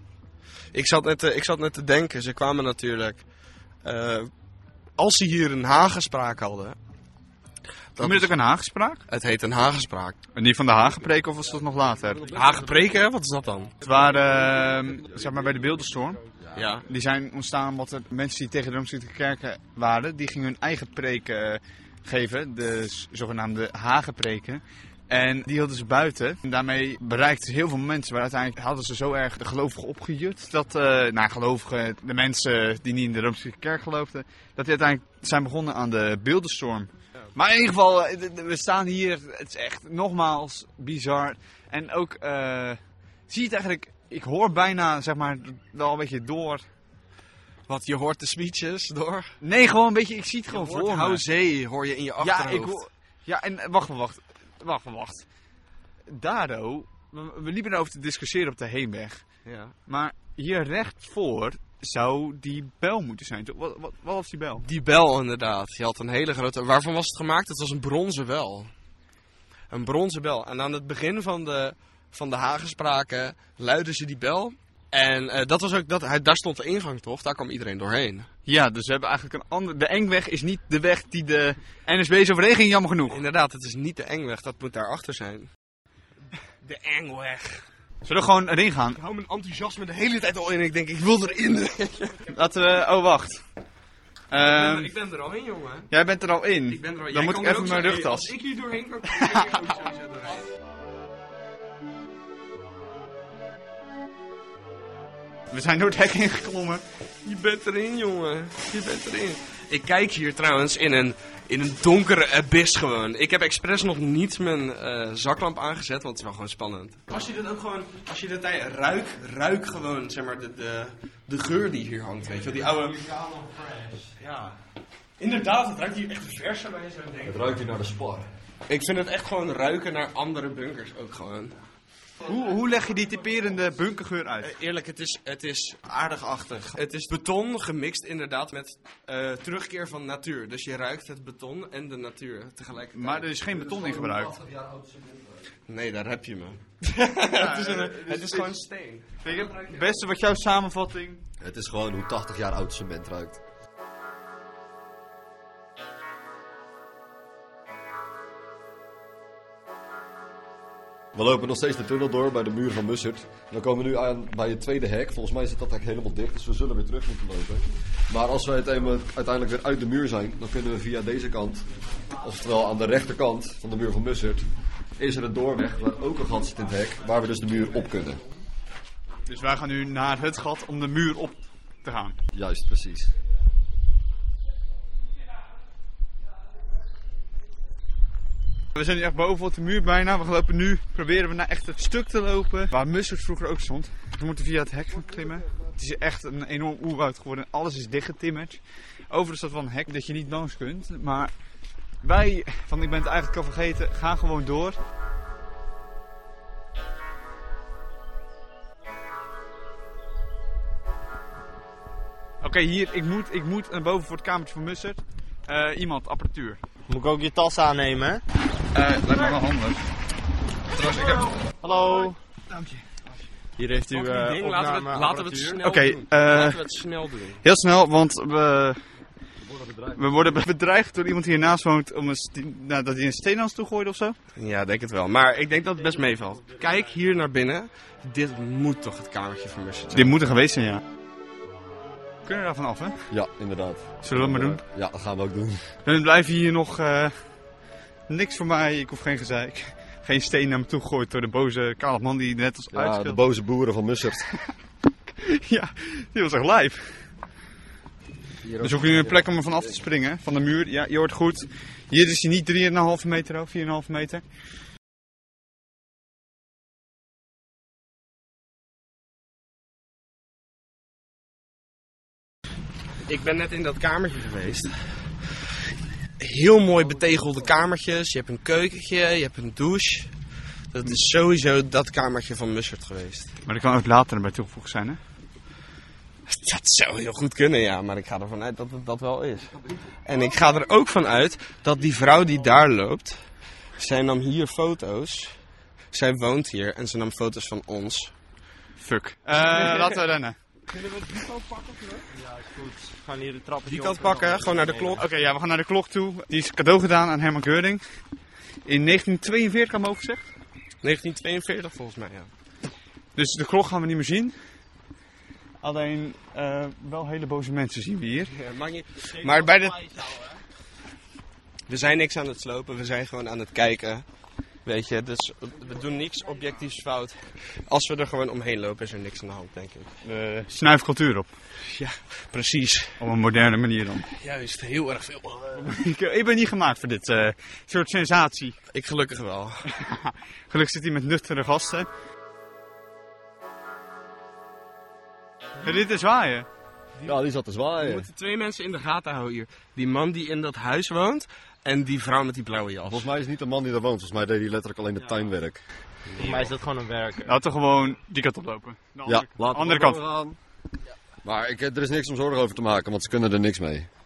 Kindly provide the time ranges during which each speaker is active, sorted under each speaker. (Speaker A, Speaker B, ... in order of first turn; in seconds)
Speaker A: 0.7-3.2, 3.8-4.3, 5.0-6.8, 8.0-8.3, 9.1-10.2, 12.3-13.7, 16.5-16.9, 47.7-49.3, 50.5-52.8, 59.4-59.7, 64.6-68.7, 69.7-78.3, 83.1-85.5, 86.6-87.6, 88.9-92.4, 94.3-95.9, 96.7-100.4, 107.2-123.2, 124.2-124.6, 125.2-127.4, 128.7-131.6, 134.4-143.3, 145.7-149.8, 223.9-227.4, 234.3-240.2, 273.1-275.3, 276.2-280.1, 280.7-283.3, 286.3-293.2, 293.8-295.3, 295.9-298.1, 299.4-300.0, 303.6-305.0, 310.8-312.3, 318.2-320.3, 321.7-324.0, 324.6-329.9, 331.6-333.0, 334.1-335.6, 338.7-339.7, 347.8-353.1
Speaker B: 8.0-9.0, 10.3-12.3, 13.8-16.2, 16.8-46.6, 49.4-51.2, 52.2-55.2, 56.1-59.2, 59.9-64.7, 78.5-83.2, 88.0-89.0, 92.3-93.4, 94.3-94.9, 95.9-98.3, 105.5-106.8, 132.2-134.5, 142.9-144.3, 147.3-148.5, 149.2-151.2, 179.3-182.2, 188.7-201.3, 202.0-204.8, 212.4-216.6, 218.7-219.8, 220.8-221.2, 225.6-226.6, 227.4-228.8, 229.9-234.2, 239.9-240.8, 242.2-243.0, 244.0-244.6, 245.8-247.1, 248.1-253.2, 255.2-256.9, 258.6-264.2, 283.4-285.0, 298.8-300.4, 305.0-307.8, 308.6-310.2, 313.1-314.3, 315.6-318.3, 330.0-331.3, 333.0-334.1, 335.6-338.6, 339.7-341.9, 345.6-346.4, 357.2-360.0
Speaker C: 127.2-128.2, 143.5-145.4, 151.4-153.4, 161.1-171.6, 172.2-174.4, 175.0-178.2, 182.3-183.1, 229.4-230.0, 243.1-245.6, 252.7-254.2, 258.4-259.7, 347.0-348.1, 352.9-356.5, 359.1-360.4, 361.2-363.9
Speaker D: 216.9-218.2, 221.6-222.2, 223.6-225.5, 300.7-305.0, 356.1-357.4